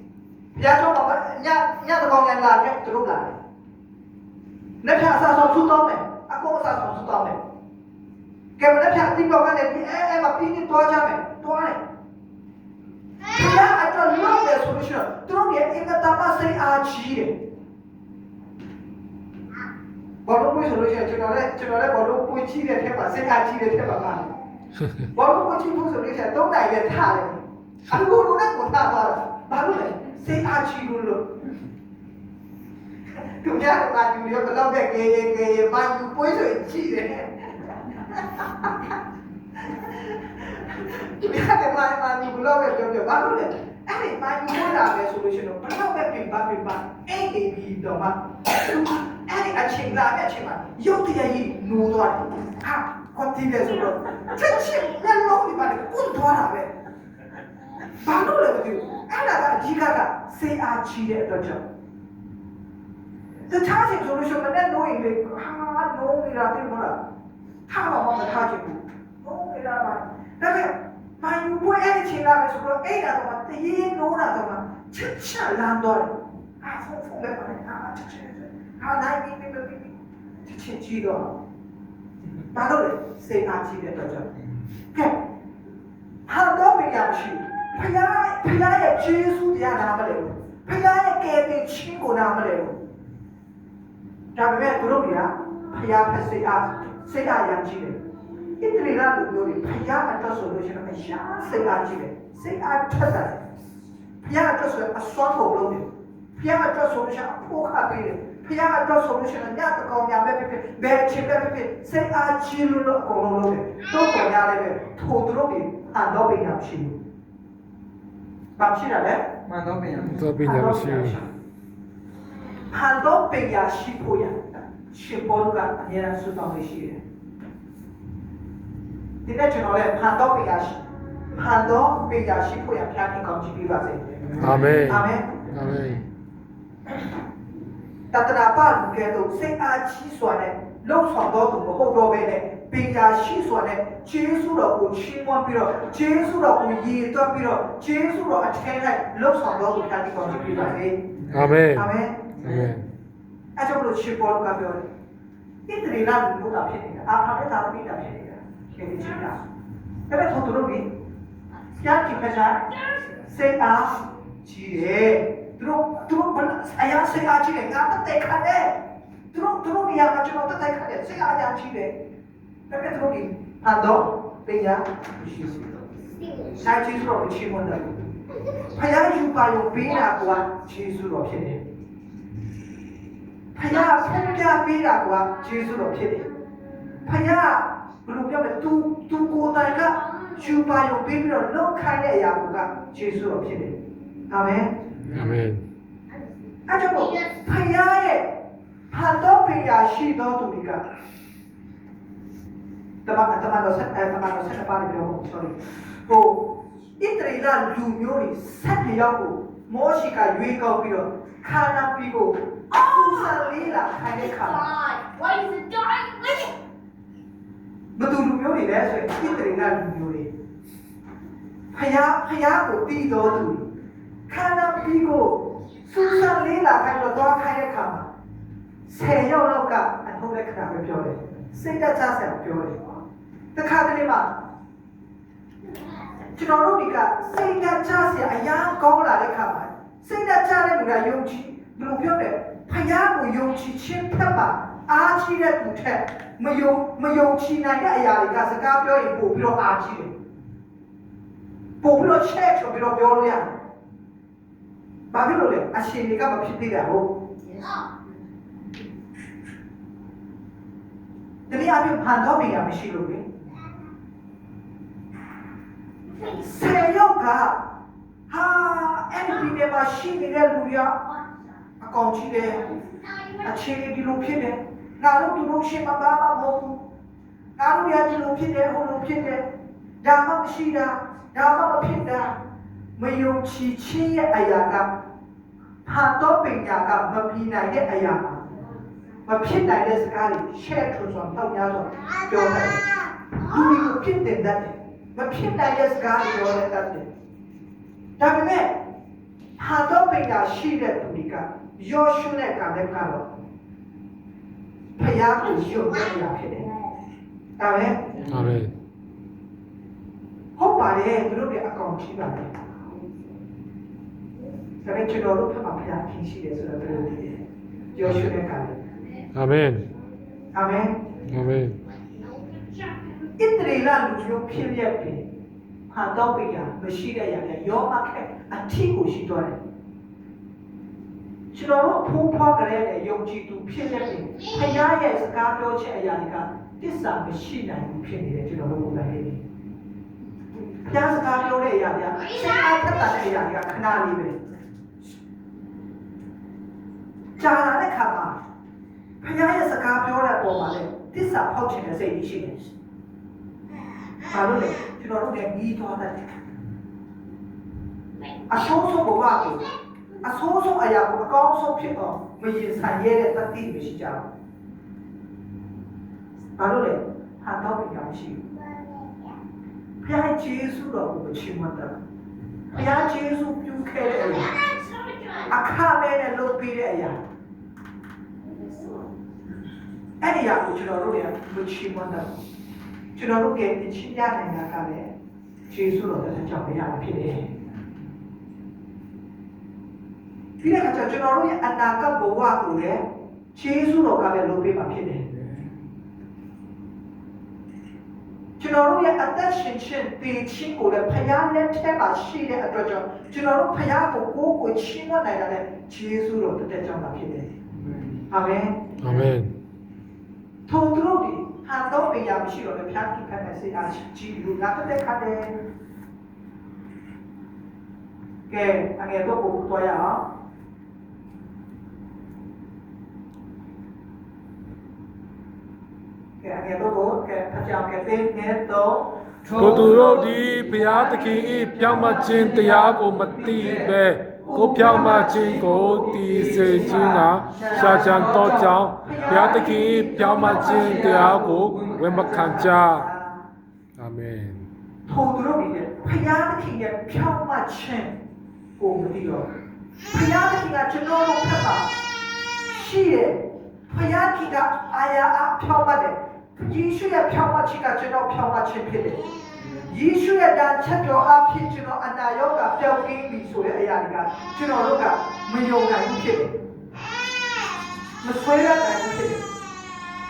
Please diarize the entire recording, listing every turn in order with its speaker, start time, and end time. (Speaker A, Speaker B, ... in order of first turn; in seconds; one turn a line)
Speaker A: 0.5-3.4
Speaker A: 4.8-7.4
Speaker A: 8.6-11.8
Speaker A: 13.2-17.4
Speaker A: 20.2-24.4
Speaker A: 25.0-31.4
Speaker A: 33.1-38.9
Speaker A: 39.6-56.7
Speaker A: 57.9-61.6
Speaker A: 63.5-67.0
Speaker A: 67.7-81.4
Speaker A: 82.4-85.2
Speaker A: 86.3-92.8
Speaker A: 94.3-103.4
Speaker A: 104.2-117.0
Speaker A: 118.5-119.3
Speaker B: 119.5-120.3
Speaker C: 120.1-121.2
Speaker A: 120.3-121.3
Speaker A: 122.6-127.0
Speaker A: 129.2-135.4
Speaker C: 134.4-136.0
Speaker A: 138.1-151.0
Speaker B: 151.2-151.6
Speaker C: 151.3-152.8
Speaker A: 151.7-152.3
Speaker B: 152.3-152.8
Speaker A: 153.6-154.9
Speaker A: 155.7-159.4
Speaker A: 160.1-160.9
Speaker A: 161.8-172.0
Speaker D: 162.7-163.1
Speaker A: 172.7-175.7
Speaker D: 176.2-176.5
Speaker A: 176.5-178.1
Speaker A: 178.6-181.6
Speaker A: 183.5-186.3
Speaker D: 183.7-184.2
Speaker A: 187.0-194.7
Speaker C: 195.1-195.6
Speaker A: 196.7-198.3
Speaker A: 198.9-200.8
Speaker A: 203.0-214.8
Speaker D: 212.7-213.5
Speaker D: 214.1-216.5
Speaker A: 217.9-220.3
Speaker A: 221.7-223.7
Speaker A: 224.3-228.1
Speaker A: 228.8-232.8
Speaker A: 233.5-234.3
Speaker A: 236.2-250.1
Speaker A: 251.8-253.6
Speaker A: 255.1-257.2
Speaker D: 257.6-257.9
Speaker A: 261.5-263.2
Speaker A: 266.2-267.7
Speaker A: 268.3-271.2
Speaker A: 271.8-272.8
Speaker D: 272.8-273.4
Speaker A: 273.4-276.8
Speaker A: 277.6-279.5
Speaker A: 280.0-282.4
Speaker A: 282.9-284.9
Speaker A: 285.8-288.6
Speaker A: 289.2-297.1
Speaker A: 298.2-298.8
Speaker A: 299.6-303.3
Speaker A: 304.9-306.7
Speaker A: 307.6-308.3
Speaker C: 308.2-308.7
Speaker A: 310.6-312.5
Speaker A: 314.8-317.4
Speaker A: 317.9-318.8
Speaker C: 318.0-318.3
Speaker C: 319.3-319.9
Speaker A: 320.5-321.2
Speaker C: 321.2-321.8
Speaker A: 323.4-325.3
Speaker A: 325.9-329.6
Speaker A: 331.5-339.4
Speaker D: 334.4-334.7
Speaker A: 340.6-344.4
Speaker D: 342.2-342.9
Speaker A: 347.4-348.4
Speaker A: 349.2-352.6
Speaker A: 354.3-356.4
Speaker A: 358.5-359.7
Speaker A: 360.2-364.3
Speaker A: 366.6-368.4
Speaker D: 368.7-369.3
Speaker A: 370.0-372.0
Speaker A: 372.7-374.6
Speaker D: 374.5-375.4
Speaker A: 375.4-377.2
Speaker D: 378.5-379.0
Speaker A: 380.2-382.4
Speaker A: 383.1-385.1
Speaker A: 385.7-387.5
Speaker A: 390.6-395.4
Speaker A: 398.6-407.5
Speaker A: 408.3-408.9
Speaker C: 409.0-409.5
Speaker A: 410.7-415.6
Speaker A: 418.5-420.3
Speaker A: 426.4-429.2
Speaker B: 429.4-430.4
Speaker C: 429.5-443.1
Speaker B: 431.1-433.9
Speaker B: 434.4-439.4
Speaker A: 434.6-435.5
Speaker A: 437.7-443.4
Speaker B: 440.3-442.2
Speaker C: 444.0-444.7
Speaker A: 445.1-448.2
Speaker A: 448.8-449.5
Speaker A: 450.1-451.9
Speaker A: 452.7-466.6
Speaker A: 468.2-469.5